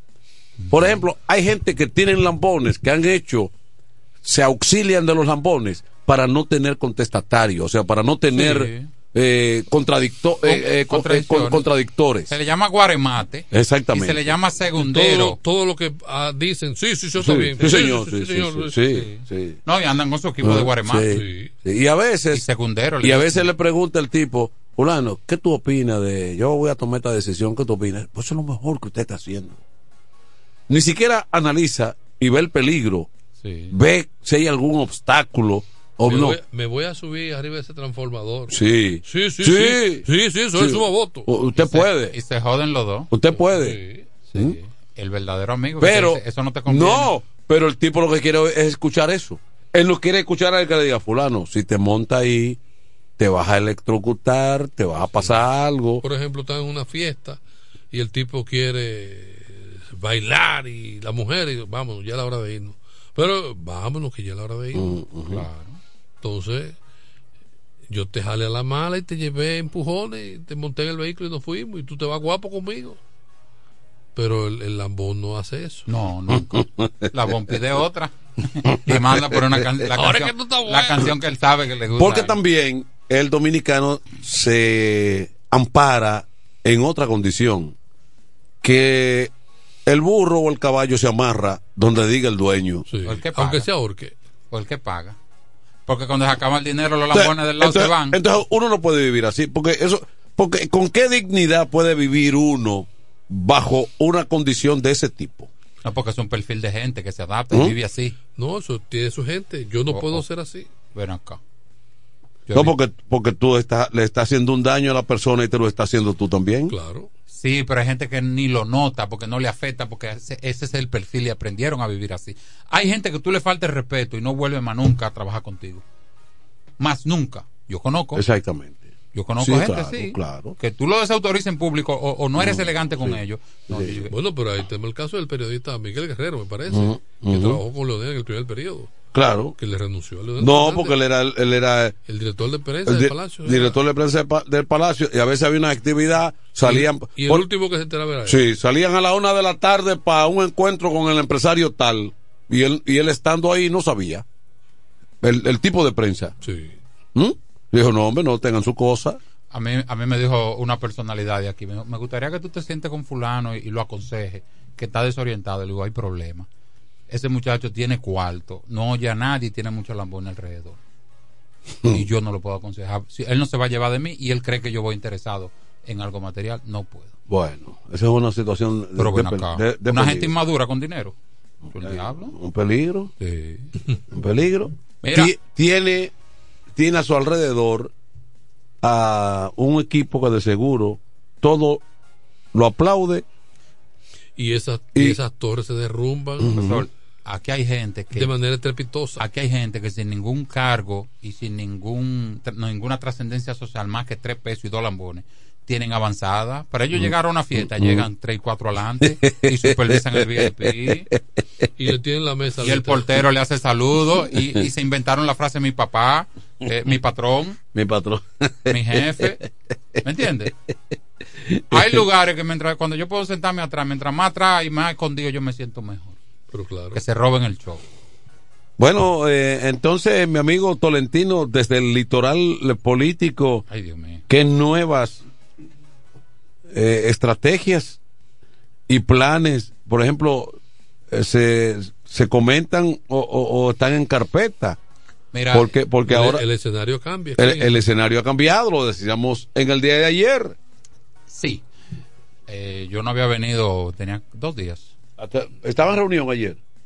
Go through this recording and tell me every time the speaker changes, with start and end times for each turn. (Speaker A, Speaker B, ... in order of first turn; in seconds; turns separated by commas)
Speaker A: 0.6-1.0, Speaker B: 0.7-3.5, Speaker B: 4.2-12.3, Speaker A: 8.3-8.9, Speaker A: 10.4-11.7, Speaker A: 12.3-15.4, Speaker B: 13.5-14.2, Speaker C: 14.8-18.8, Speaker B: 17.2-19.6, Speaker A: 18.9-21.1, Speaker B: 20.4-22.4, Speaker C: 21.1-21.5, Speaker A: 22.3-23.5, Speaker B: 23.0-29.6, Speaker B: 30.7-33.1, Speaker A: 33.4-33.8, Speaker B: 33.7-36.4, Speaker C: 36.0-41.3, Speaker B: 38.5-42.1, Speaker A: 41.6-43.1, Speaker B: 43.1-43.8, Speaker C: 43.4-44.1, Speaker A: 44.3-47.1, Speaker B: 45.8-52.6, Speaker B: 53.2-56.0, Speaker C: 56.0-65.0, Speaker B: 64.7-65.5, Speaker A: 65.3-65.8, Speaker C: 66.2-66.8, Speaker C: 67.9-73.0, Speaker C: 74.2-75.9, Speaker A: 75.9-82.4, Speaker B: 76.5-77.1, Speaker B: 78.9-79.5, Speaker C: 79.9-81.1, Speaker B: 82.0-87.8, Speaker B: 88.6-89.3, Speaker B: 89.9-92.9, Speaker C: 92.9-94.1, Speaker A: 93.0-93.7, Speaker A: 94.5-95.2, Speaker A: 95.9-98.2, Speaker B: 97.1-105.5, Speaker A: 105.8-108.2, Speaker C: 108.3-110.7, Speaker A: 109.9-110.3, Speaker A: 110.9-111.4, Speaker A: 112.5-112.7, Speaker B: 112.5-116.7, Speaker C: 116.7-117.1, Speaker A: 117.3-125.8, Speaker A: 126.8-128.2, Speaker B: 128.1-130.6, Speaker A: 129.1-134.1, Speaker B: 132.4-134.0, Speaker C: 134.1-138.9, Speaker B: 136.7-137.6, Speaker B: 139.1-139.6, Speaker C: 139.6-141.0, Speaker B: 140.4-141.9, Speaker C: 142.1-143.8, Speaker B: 142.9-147.4, Speaker C: 146.6-148.4, Speaker B: 148.3-154.2, Speaker B: 155.2-156.3, Speaker C: 156.4-156.8, Speaker B: 157.1-159.2, Speaker A: 159.5-166.5, Speaker A: 167.1-170.8, Speaker A: 171.9-177.1, Speaker B: 177.3-180.3, Speaker A: 179.0-181.1, Speaker B: 181.7-183.1, Speaker A: 181.7-182.4, Speaker A: 183.2-183.7, Speaker B: 184.1-186.1, Speaker A: 185.0-185.3, Speaker B: 186.8-187.9, Speaker B: 188.8-191.8, Speaker B: 192.5-193.2, Speaker C: 194.4-196.6, Speaker B: 196.4-196.8, Speaker A: 196.5-198.3, Speaker C: 198.1-199.2, Speaker A: 199.2-211.1, Speaker B: 207.0-208.1, Speaker B: 209.2-211.1, Speaker C: 211.8-213.1, Speaker A: 212.6-217.6, Speaker B: 217.7-219.4, Speaker A: 218.7-219.4, Speaker A: 220.0-220.5, Speaker B: 221.5-222.0, Speaker A: 221.7-226.2, Speaker C: 226.5-227.0, Speaker A: 226.9-227.8, Speaker B: 228.8-233.6, Speaker A: 233.7-234.2, Speaker B: 234.3-235.2, Speaker B: 236.7-238.0, Speaker B: 238.9-240.6, Speaker B: 241.1-244.8, Speaker A: 245.3-245.7, Speaker B: 245.5-246.4, Speaker C: 246.1-247.8, Speaker B: 247.4-250.6, Speaker A: 251.3-251.6, Speaker A: 252.5-254.9, Speaker B: 255.2-256.6